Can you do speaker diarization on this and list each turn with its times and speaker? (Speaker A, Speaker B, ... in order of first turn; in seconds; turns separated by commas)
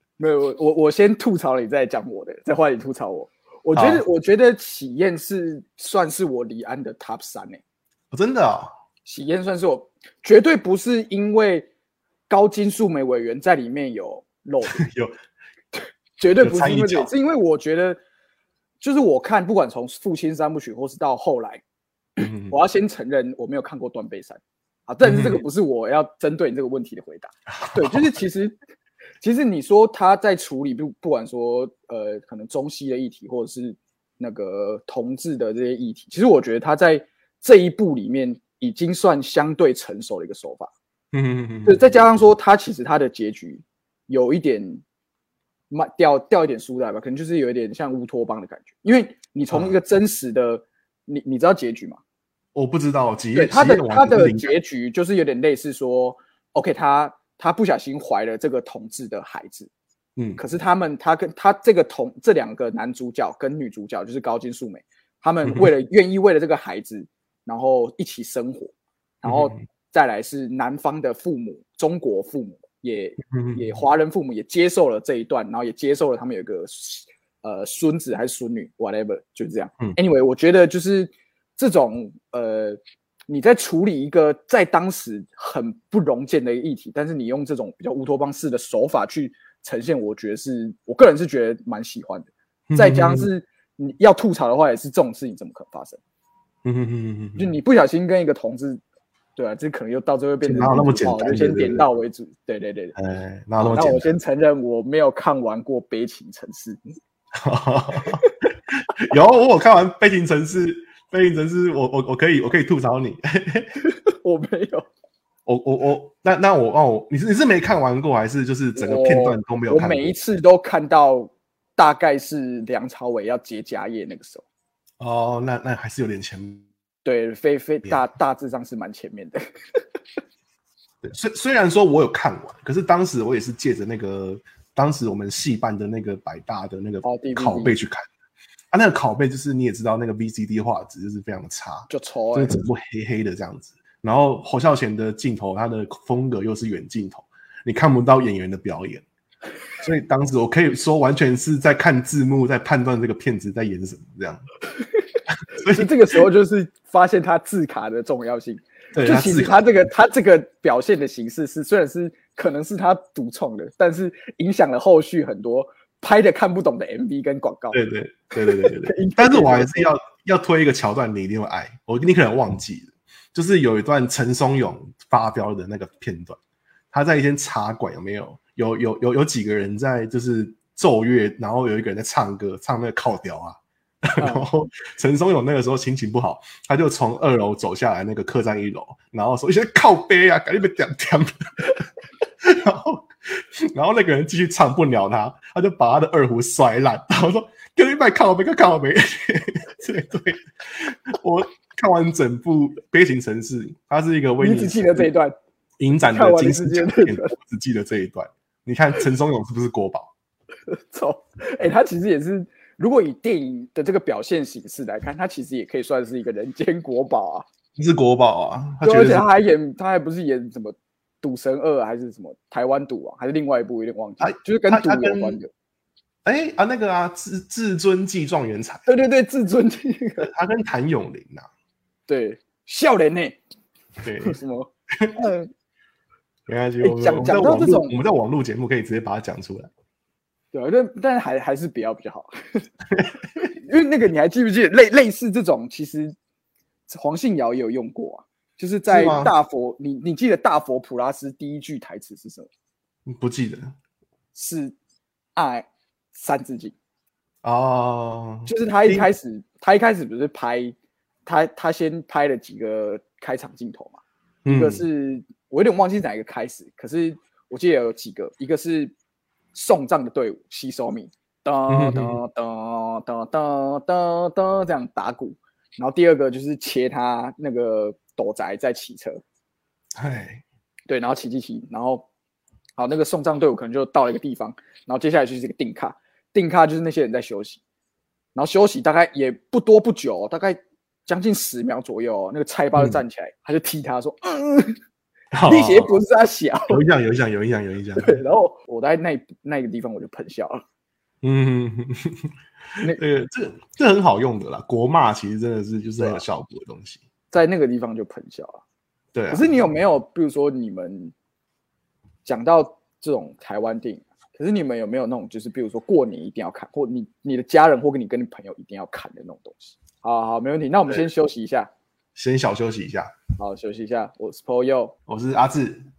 Speaker A: 0.2-7.6, Speaker B: 3.7-4.0, Speaker B: 8.1-8.7, Speaker A: 9.1-11.7, Speaker A: 12.3-14.8, Speaker B: 14.7-15.1, Speaker A: 15.8-18.0, Speaker B: 16.4-17.1, Speaker A: 18.8-21.6, Speaker B: 22.2-22.5, Speaker A: 22.2-28.6, Speaker B: 25.0-25.4, Speaker B: 27.6-28.1, Speaker A: 29.2-40.7, Speaker B: 41.1-41.9, Speaker A: 41.6-44.8, Speaker A: 45.7-52.0, Speaker B: 52.5-54.6, Speaker A: 53.3-59.7, Speaker B: 60.1-60.4, Speaker A: 60.4-96.0, Speaker B: 69.2-69.6, Speaker B: 73.3-73.7, Speaker B: 92.7-93.3, Speaker B: 96.6-97.5, Speaker A: 97.3-98.8, Speaker A: 99.3-103.0, Speaker B: 100.4-101.8, Speaker B: 103.0-104.1, Speaker A: 103.6-106.8, Speaker B: 107.4-113.7, Speaker A: 108.0-108.3, Speaker A: 113.8-114.9, Speaker B: 115.5-120.1, Speaker A: 118.8-124.4, Speaker B: 125.0-126.7, Speaker A: 127.0-129.8, Speaker B: 131.0-138.1, Speaker A: 137.0-137.7, Speaker B: 138.7-149.0, Speaker A: 141.9-142.6, Speaker B: 149.8-154.4, Speaker A: 154.8-167.8, Speaker B: 155.3-156.2, Speaker B: 158.9-159.6, Speaker B: 167.7-176.4, Speaker A: 168.4-169.9, Speaker B: 176.9-191.8, Speaker A: 184.2-184.5, Speaker B: 192.4-205.1, Speaker A: 204.4-205.3, Speaker B: 205.8-210.1, Speaker A: 206.1-207.3, Speaker A: 210.7-217.4, Speaker B: 217.8-219.3, Speaker A: 218.8-225.5, Speaker B: 224.2-225.4, Speaker B: 226.2-228.9, Speaker A: 228.9-230.3, Speaker B: 230.2-231.5, Speaker A: 232.1-233.4, Speaker B: 234.0-234.4, Speaker A: 234.2-235.5, Speaker B: 236.5-239.7, Speaker A: 236.8-237.9, Speaker A: 240.5-242.7, Speaker A: 243.4-246.1, Speaker A: 246.9-252.5, Speaker B: 248.9-249.3, Speaker B: 253.1-253.7, Speaker A: 254.3-254.7, Speaker A: 255.3-256.7, Speaker B: 257.4-259.1, Speaker A: 258.5-260.7, Speaker A: 261.2-268.9, Speaker B: 264.4-264.8, Speaker A: 269.5-279.2, Speaker B: 271.7-272.2, Speaker B: 279.9-280.4, Speaker A: 280.9-282.1, Speaker A: 282.8-287.6, Speaker A: 288.3-294.8, Speaker B: 295.3-295.9, Speaker A: 295.5-296.8, Speaker B: 296.7-298.2, Speaker A: 298.0-300.6, Speaker B: 301.2-307.0, Speaker A: 307.3-308.6, Speaker B: 309.1-309.5, Speaker A: 309.3-311.1, Speaker A: 312.2-321.7, Speaker B: 322.1-323.1, Speaker A: 323.4-324.9, Speaker B: 325.1-325.8